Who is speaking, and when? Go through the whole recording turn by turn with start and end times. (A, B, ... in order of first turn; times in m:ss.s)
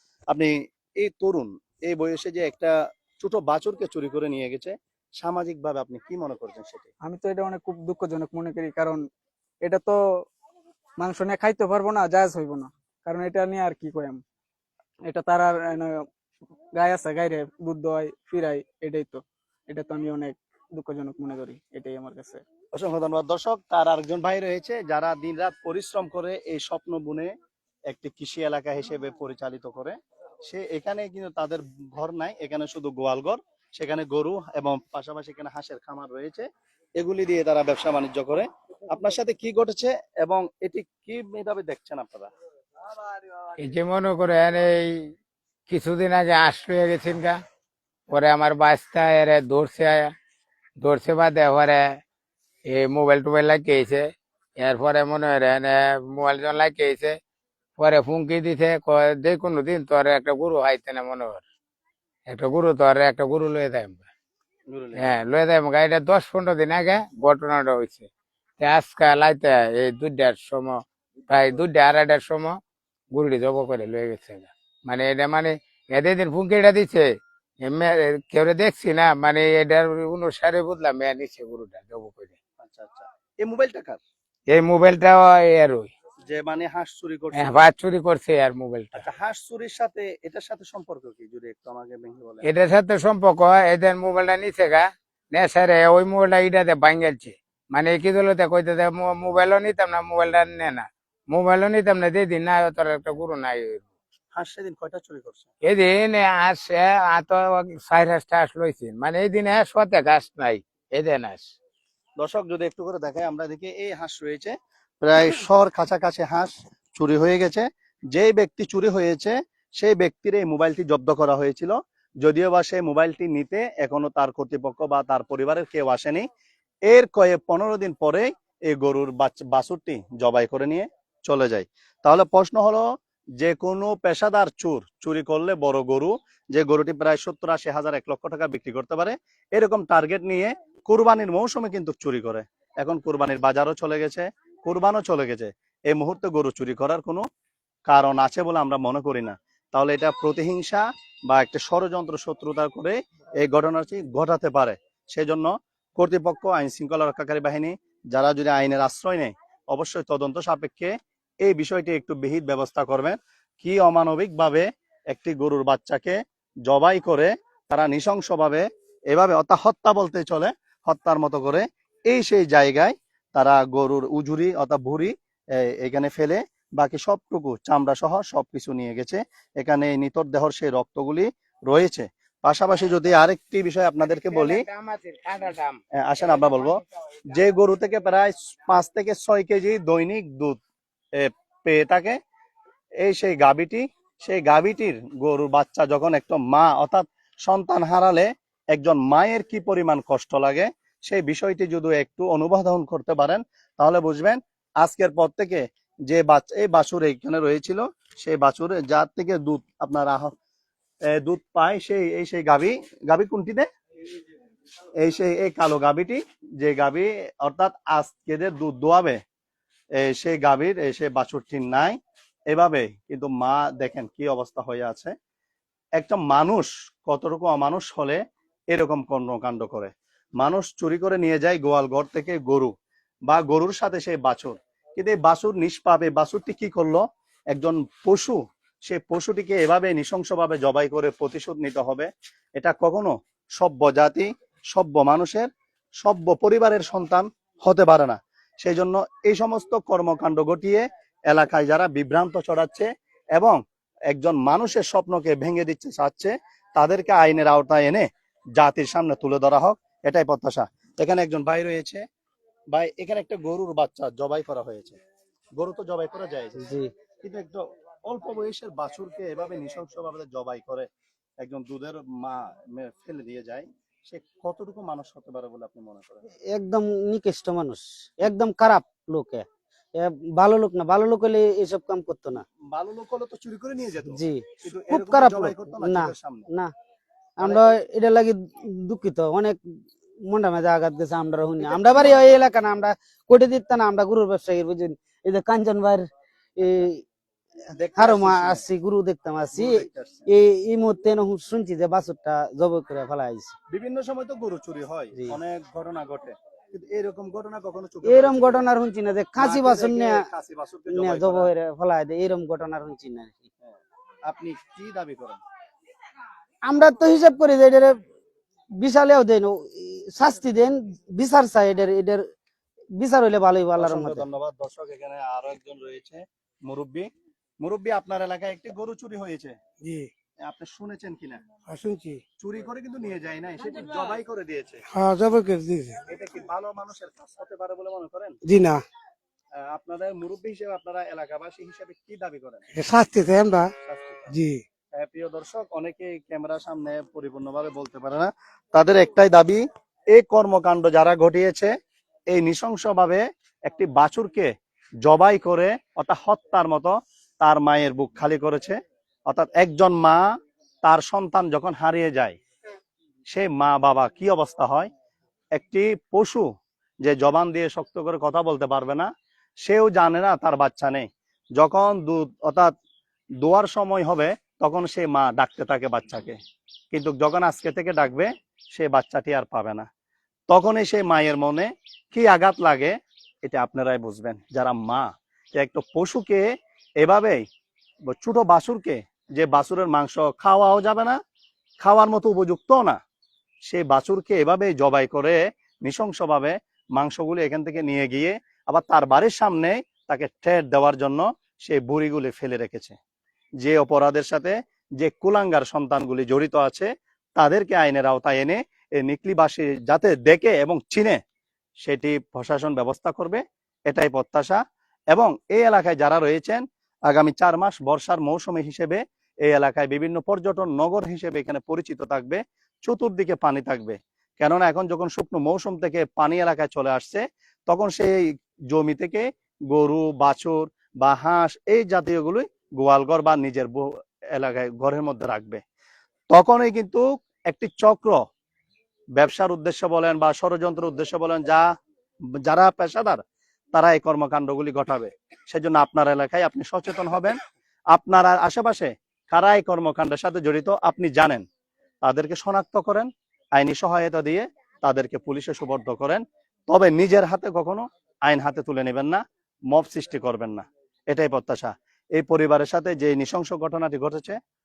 0:00.3-0:06.9 A
0:07.0-0:09.0 B
0:09.6-0:10.0 B
0:11.0-0:14.2 B
0:15.0-0:16.0 B
0:16.7-0:22.4 B
0:22.7-0:27.3 A
0:27.9-0:36.5 A
0:37.0-0:42.3 A
0:43.6-0:45.1 C
0:45.7-0:47.4 C
0:48.1-0:50.1 C
0:50.8-0:51.8 C
0:52.7-0:57.2 C
0:57.8-1:01.4 C
1:02.3-1:04.0 C
1:04.7-1:05.1 A
1:05.0-1:08.1 C
1:08.6-1:12.6 C
1:13.1-1:17.1 C
1:17.6-1:22.3 C
1:22.6-1:24.0 A
1:24.5-1:25.9 C
1:26.2-1:27.6 A
1:27.3-1:29.0 C
1:28.9-1:32.5 A
1:32.4-1:43.8 C
1:44.3-1:45.5 A
1:45.6-1:51.5 C
1:52.2-2:06.3 A
2:06.9-2:12.8 A
2:13.4-2:27.2 A
2:27.9-3:04.6 A
3:04.3-3:06.8 C
3:06.0-3:10.6 A
3:11.2-3:12.2 A
3:13.0-3:30.3 A
3:31.1-3:33.7 A
3:35.0-3:39.2 A
3:40.0-3:42.0 A
3:42.5-3:45.1 A
3:46.0-3:52.7 A
3:53.3-4:05.5 A
4:06.0-4:13.6 A
4:14.1-4:22.0 A
4:22.7-4:25.0 A
4:25.6-4:26.6 A
4:26.6-4:26.9 D
4:27.2-4:30.9 A
4:31.4-4:36.2 A
4:36.5-4:42.4 D
4:42.7-4:46.5 A
4:44.1-4:46.7 D
4:47.4-4:49.6 D
4:47.4-4:47.7 A
4:50.2-4:57.0 D
4:51.6-4:52.4 A
4:57.7-4:58.6 A
4:58.0-5:03.5 D
4:59.5-5:00.3 A
5:03.7-5:08.6 A
5:08.0-5:10.2 D
5:09.4-5:11.5 A
5:10.9-5:13.4 D
5:13.6-5:15.4 A
5:16.7-5:18.0 D
5:18.8-5:22.2 D
5:23.0-5:24.2 D
5:23.8-5:27.1 A
5:27.6-5:29.6 A
5:30.4-5:31.4 A
5:31.7-5:32.2 E
5:32.4-5:34.8 A
5:34.9-5:36.0 E
5:36.0-5:38.4 A
5:38.5-5:38.8 E
5:39.6-5:42.7 A
5:42.8-5:43.6 E
5:43.8-5:44.4 A
5:44.9-5:51.7 A
5:52.3-5:54.5 A
5:55.0-6:00.2 A
6:00.8-6:02.4 A
6:03.3-6:04.9 A
6:05.6-6:06.5 A
6:07.0-6:09.1 A
6:09.6-6:12.7 A
6:13.4-6:16.4 A
6:16.9-6:19.9 A
6:20.5-6:27.4 A
6:28.1-6:31.2 A
6:31.8-6:33.0 A
6:33.7-6:43.0 A
6:43.6-6:51.2 A
6:51.8-6:54.6 A
6:55.1-7:13.8 A
7:14.3-7:15.6 A
7:16.3-7:18.2 A
7:19.2-7:21.6 A
7:22.4-7:23.2 A
7:23.7-7:27.4 A
7:27.9-7:31.4 A
7:32.0-7:44.4 A